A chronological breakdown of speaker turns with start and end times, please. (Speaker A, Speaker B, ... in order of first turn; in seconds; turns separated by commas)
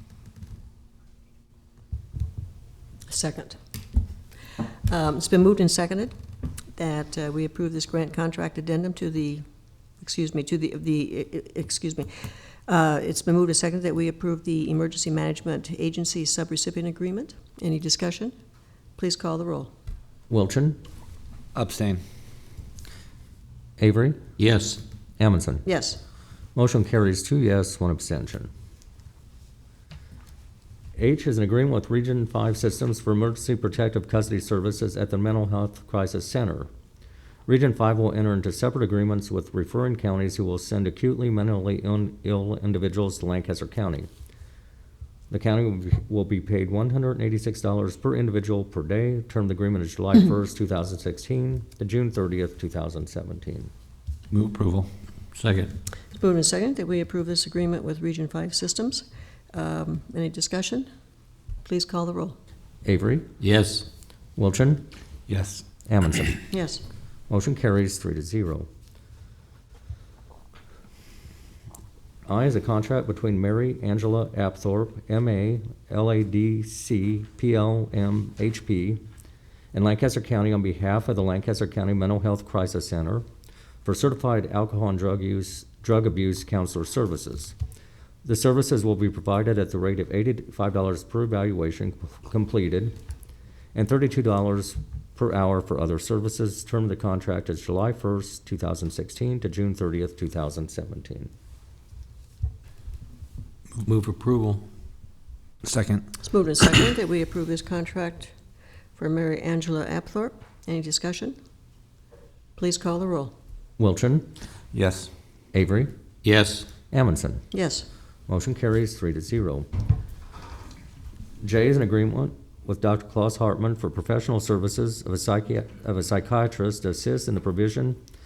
Speaker A: 3.1-3.6, Speaker A: 4.9-6.1, Speaker A: 6.8-9.4, Speaker A: 10.0-18.4, Speaker A: 19.0-19.7, Speaker B: 20.3-20.8, Speaker C: 21.5-22.0, Speaker B: 23.8-24.2, Speaker D: 24.4-24.8, Speaker B: 25.2-25.6, Speaker A: 25.7-26.0, Speaker B: 26.6-28.5, Speaker B: 31.0-36.7, Speaker B: 37.5-44.1, Speaker B: 45.3-53.7, Speaker C: 54.3-54.9, Speaker D: 55.3-55.8, Speaker A: 56.1-60.9, Speaker A: 61.6-62.4, Speaker B: 62.9-63.3, Speaker D: 63.4-63.9, Speaker B: 64.4-64.9, Speaker C: 65.3-65.7, Speaker B: 65.9-66.4, Speaker A: 66.5-66.8, Speaker B: 67.3-68.7, Speaker B: 72.3-79.0, Speaker B: 79.7-83.2, Speaker B: 83.8-87.5, Speaker B: 88.2-93.0, Speaker B: 93.7-101.3, Speaker D: 103.8-104.7, Speaker C: 105.6-106.1, Speaker A: 106.2-108.3, Speaker A: 109.0-111.4, Speaker A: 112.6-113.3, Speaker B: 113.8-114.3, Speaker C: 114.7-115.1, Speaker B: 115.5-115.9, Speaker D: 116.2-116.7, Speaker B: 116.9-117.5, Speaker A: 117.5-117.9, Speaker B: 118.3-119.7, Speaker B: 121.4-128.0